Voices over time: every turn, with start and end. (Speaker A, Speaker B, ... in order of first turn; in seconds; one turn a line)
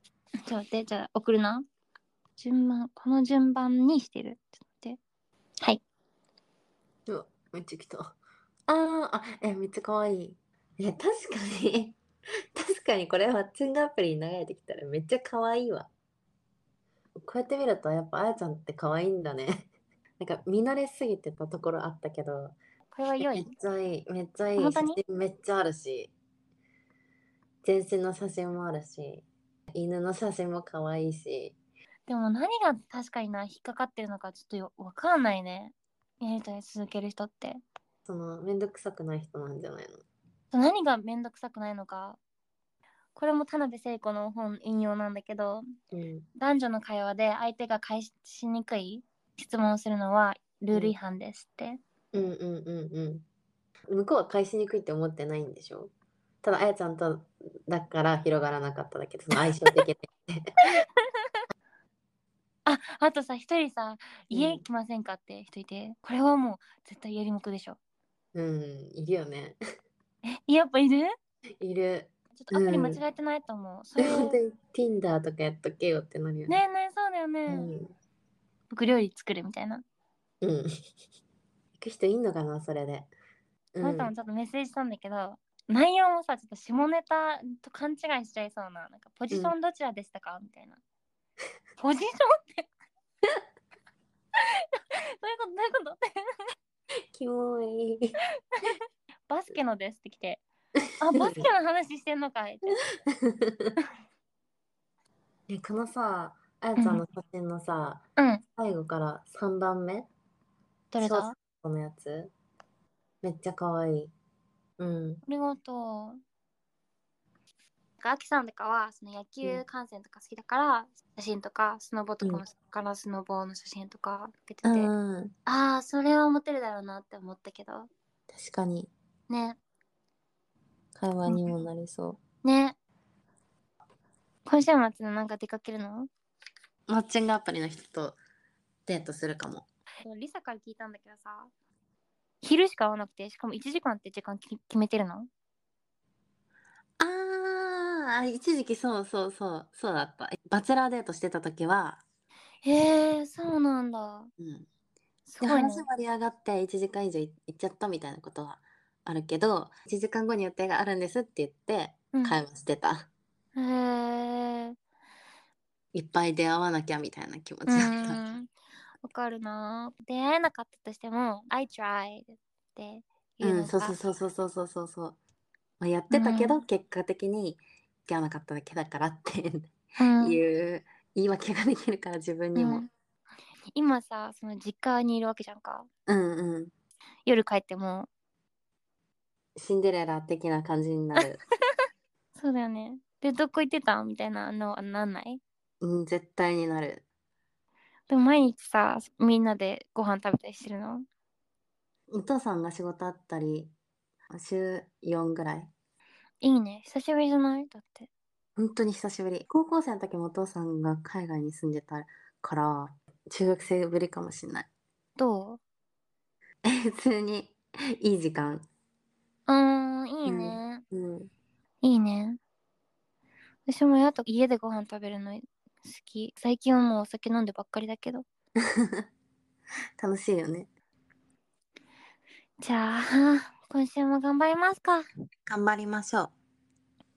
Speaker A: 0.4-1.6
Speaker A: 2.4-5.0
Speaker B: 7.1-8.1
Speaker B: 8.7-12.0
Speaker B: 12.5-15.9
Speaker B: 17.2-19.7
Speaker B: 20.2-22.6
Speaker A: 22.9-23.5
Speaker B: 23.2-26.1
Speaker A: 24.6-25.0
Speaker B: 27.6-31.6
Speaker A: 32.1-37.6
Speaker B: 38.0-40.0
Speaker A: 40.5-42.2
Speaker A: 43.1-45.6
Speaker B: 45.9-46.3
Speaker A: 46.4-51.8
Speaker B: 52.1-53.2
Speaker B: 53.9-55.9
Speaker B: 56.4-60.4
Speaker A: 59.3-59.8
Speaker A: 60.8-61.4
Speaker A: 62.6-67.8
Speaker B: 64.3-64.6
Speaker B: 68.3-69.6
Speaker A: 70.2-71.1
Speaker B: 71.6-73.0
Speaker A: 72.3-74.4
Speaker B: 74.0-76.6
Speaker A: 76.5-77.7
Speaker B: 77.5-77.9
Speaker A: 78.7-79.8
Speaker B: 80.4-80.7
Speaker B: 81.8-83.1
Speaker B: 83.7-84.1
Speaker A: 83.8-90.8
Speaker A: 91.8-92.7
Speaker A: 94.4-96.4
Speaker B: 97.1-98.2
Speaker A: 99.3-100.4
Speaker B: 100.8-101.5
Speaker A: 101.0-102.8
Speaker B: 103.1-103.7
Speaker B: 105.5-108.0
Speaker A: 106.8-107.0
Speaker A: 108.2-108.4
Speaker B: 108.6-110.1
Speaker A: 110.9-111.3
Speaker B: 111.0-112.3
Speaker B: 113.2-114.1
Speaker B: 114.8-115.2
Speaker A: 115.2-116.2
Speaker A: 118.0-124.9
Speaker B: 124.6-125.3
Speaker A: 125.5-127.9
Speaker B: 128.3-128.9
Speaker A: 129.3-129.6
Speaker B: 130.9-132.2
Speaker A: 131.2-131.5
Speaker A: 132.4-132.8
Speaker A: 134.4-136.1
Speaker B: 136.9-138.2
Speaker B: 138.9-139.7
Speaker A: 140.0-141.5
Speaker A: 142.4-145.3
Speaker B: 147.0-152.0
Speaker A: 152.6-154.3
Speaker B: 154.4-154.7
Speaker A: 155.3-155.8
Speaker B: 155.4-163.1
Speaker A: 162.1-162.4
Speaker A: 163.5-164.7
Speaker B: 165.9-168.2
Speaker A: 167.7-168.5
Speaker A: 169.0-174.0
Speaker B: 173.4-175.2
Speaker B: 175.8-182.8
Speaker A: 176.1-176.6
Speaker A: 180.0-180.4
Speaker A: 182.6-182.9
Speaker A: 183.7-185.9
Speaker B: 186.1-186.7
Speaker A: 187.2-188.1
Speaker B: 189.6-191.4
Speaker A: 192.3-195.4
Speaker B: 195.8-197.0
Speaker A: 198.1-201.1
Speaker B: 202.1-203.7
Speaker B: 204.3-205.7
Speaker A: 206.4-208.1
Speaker B: 208.6-214.7
Speaker A: 215.2-215.6
Speaker B: 216.7-218.6
Speaker A: 219.5-220.8
Speaker B: 220.2-221.3
Speaker A: 221.8-222.4
Speaker A: 223.7-228.2
Speaker B: 228.6-229.0
Speaker B: 230.0-230.7
Speaker A: 232.6-235.0
Speaker B: 235.5-236.3